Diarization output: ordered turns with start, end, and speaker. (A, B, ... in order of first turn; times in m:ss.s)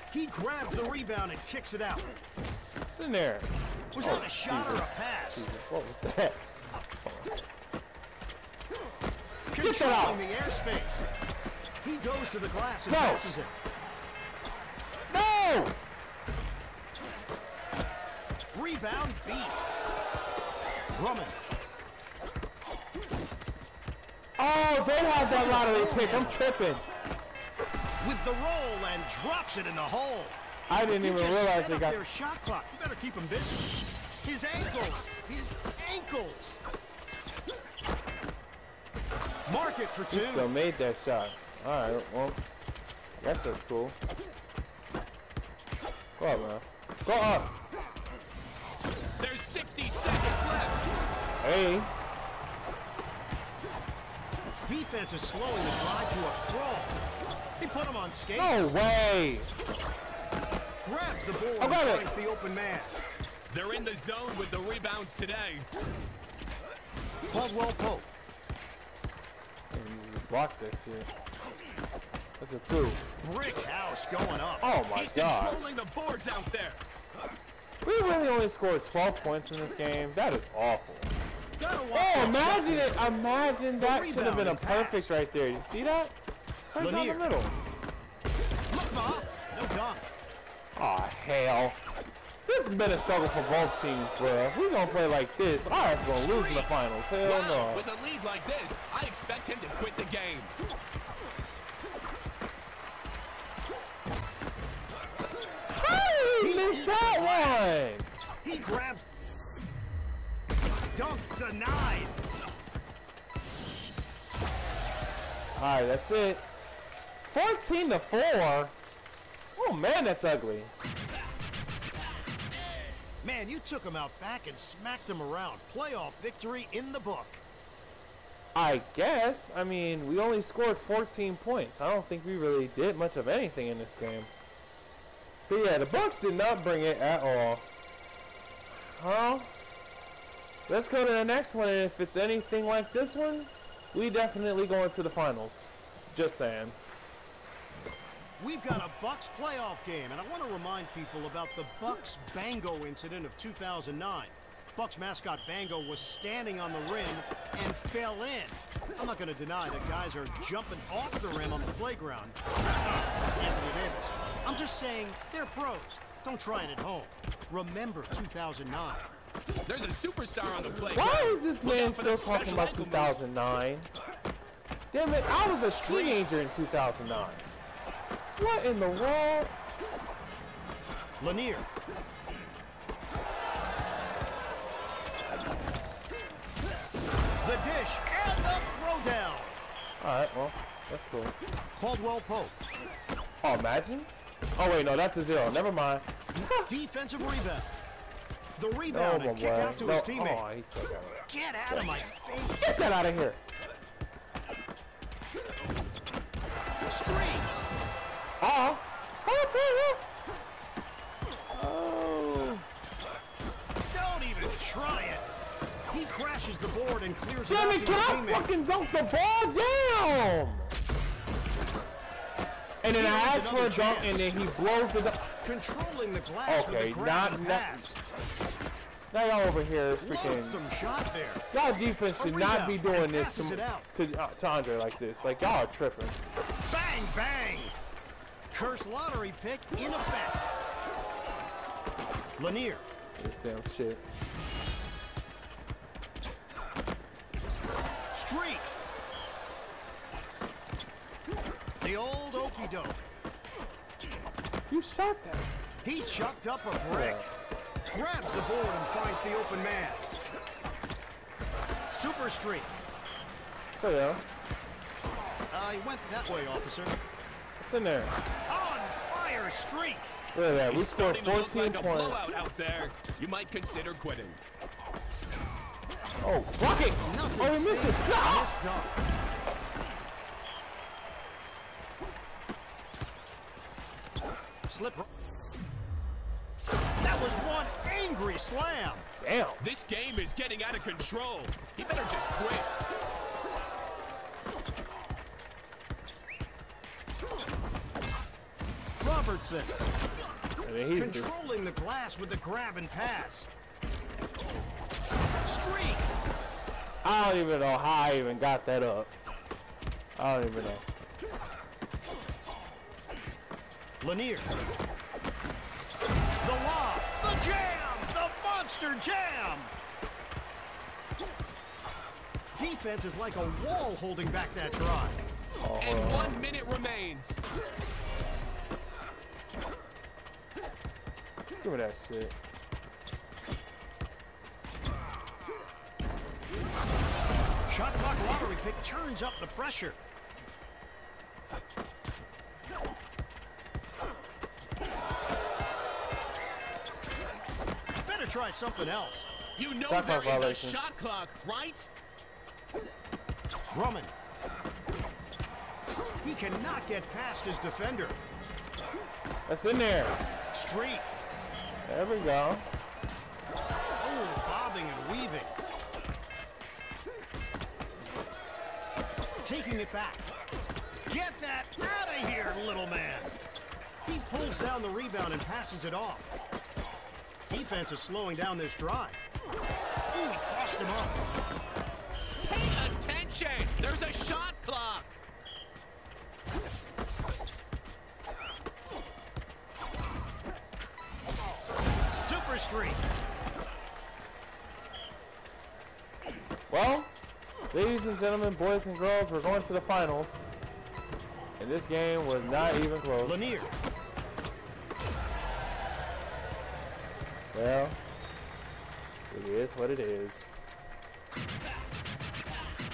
0:00.1-0:02.1 A
0:02.9-0:06.4 B
0:03.9-0:05.4 A
0:07.0-0:07.3 B
0:09.5-0:11.1 A
0:09.6-0:10.2 B
0:11.8-0:13.5 A
0:12.9-0:13.2 B
0:15.1-0:15.8 B
0:18.5-0:19.8 A
0:20.9-0:21.4 A
0:24.4-0:26.8 B
0:25.2-0:26.4 A
0:28.0-0:30.4 A
0:30.7-0:32.0 B
0:31.0-0:36.6 A
0:39.4-0:40.5 A
0:40.1-0:42.4 B
0:43.2-0:44.0 B
0:46.2-0:47.5 B
0:49.2-0:50.8 C
0:51.4-0:51.9 B
0:54.6-0:57.0 A
0:57.6-0:58.7 A
0:58.3-0:59.5 B
1:00.8-1:03.0 A
1:01.6-1:02.1 B
1:03.5-1:05.7 C
1:07.3-1:08.1 A
1:09.7-1:11.1 B
1:12.4-1:13.0 B
1:13.2-1:14.6 A
1:14.6-1:15.6 B
1:14.9-1:16.8 C
1:17.8-1:21.1 B
1:21.6-1:23.0 A
1:21.9-1:26.1 B
1:23.8-1:25.1 A
1:26.7-1:27.5 B
1:26.8-1:27.2 A
1:28.7-1:30.1 A
1:30.8-1:31.8 B
1:32.4-1:37.8 B
1:36.1-1:36.7 A
1:37.2-1:40.5 C
1:45.7-1:48.1 B
1:46.4-1:47.8 A
1:48.4-1:49.0 A
1:50.9-1:52.2 A
1:55.6-1:56.4 B
1:57.3-1:58.7 B
1:59.6-2:00.7 B
2:03.2-2:07.4 A
2:08.5-2:14.3 B
2:15.5-2:17.6 B
2:18.7-2:19.5 B
2:20.7-2:26.8 B
2:28.4-2:42.4 A
2:43.3-2:49.1 A
2:49.6-2:53.2 C
2:50.9-2:53.9 B
2:54.9-2:57.4 B
2:55.7-2:56.2 A
2:58.4-2:59.5 B
3:01.2-3:01.7 A
3:07.4-3:09.6 A
3:10.0-3:11.3 B
3:11.8-3:12.5 A
3:13.4-3:16.7 B
3:16.5-3:17.7 A
3:18.6-3:20.4 A
3:18.9-3:21.9 B
3:21.3-3:22.8 A
3:22.6-3:23.4 B
3:26.8-3:27.5 A
3:28.4-3:30.0 B
3:31.5-3:32.6 B
3:33.9-3:35.3 A
3:35.9-3:38.5 A
3:37.5-3:40.7 B
3:42.8-3:45.3 B
3:42.9-3:44.4 A
3:45.4-3:48.0 A
3:46.5-3:47.7 B
3:49.1-3:50.6 B
3:50.0-3:51.4 A
3:51.5-3:56.2 B
3:52.2-3:53.9 A
3:56.7-3:57.8 A
3:58.5-4:00.5 A
4:02.4-4:02.8 A
4:03.2-4:04.0 B
4:08.1-4:08.7 A
4:11.8-4:13.0 A
4:14.7-4:15.5 B
4:15.8-4:17.3 A
4:16.9-4:17.3 B
4:17.9-4:20.0 A
4:21.9-4:22.7 A
4:23.8-4:24.2 B
4:25.5-4:26.9 A
4:27.6-4:28.1 B
4:28.5-4:30.1 A
4:30.3-4:32.2 B
4:30.7-4:34.4 C
4:36.2-4:38.6 B
4:37.0-4:39.0 A
4:44.7-4:45.0 A
4:47.0-4:49.0 A
4:49.2-4:49.6 B
4:49.6-4:52.8 C
4:59.0-4:59.8 A
5:00.6-5:01.3 B
5:00.9-5:03.5 A
5:05.4-5:06.1 A
5:07.0-5:09.1 B
5:10.2-5:10.8 B
5:14.0-5:14.5 A
5:16.4-5:19.7 A
5:22.6-5:25.2 A
5:25.6-5:26.4 B
5:25.8-5:27.4 C
5:31.6-5:32.3 B
5:37.7-5:40.0 A
5:48.0-5:49.3 A
5:49.6-5:51.9 C
5:49.9-5:50.8 B
5:53.7-5:54.1 A
5:56.2-5:58.2 A
5:59.4-6:00.2 B
6:00.5-6:01.1 A
6:01.8-6:02.6 B
6:04.0-6:05.5 A
6:09.4-6:10.3 A
6:11.1-6:13.4 A
6:14.0-6:16.3 A
6:17.5-6:19.2 A
6:20.1-6:21.2 A
6:22.4-6:25.2 C
6:32.1-6:33.0 A
6:36.7-6:37.1 B
6:37.7-6:40.4 B
6:41.6-6:43.4 B
6:43.2-6:43.7 A
6:47.5-6:48.0 B
6:49.3-6:50.5 B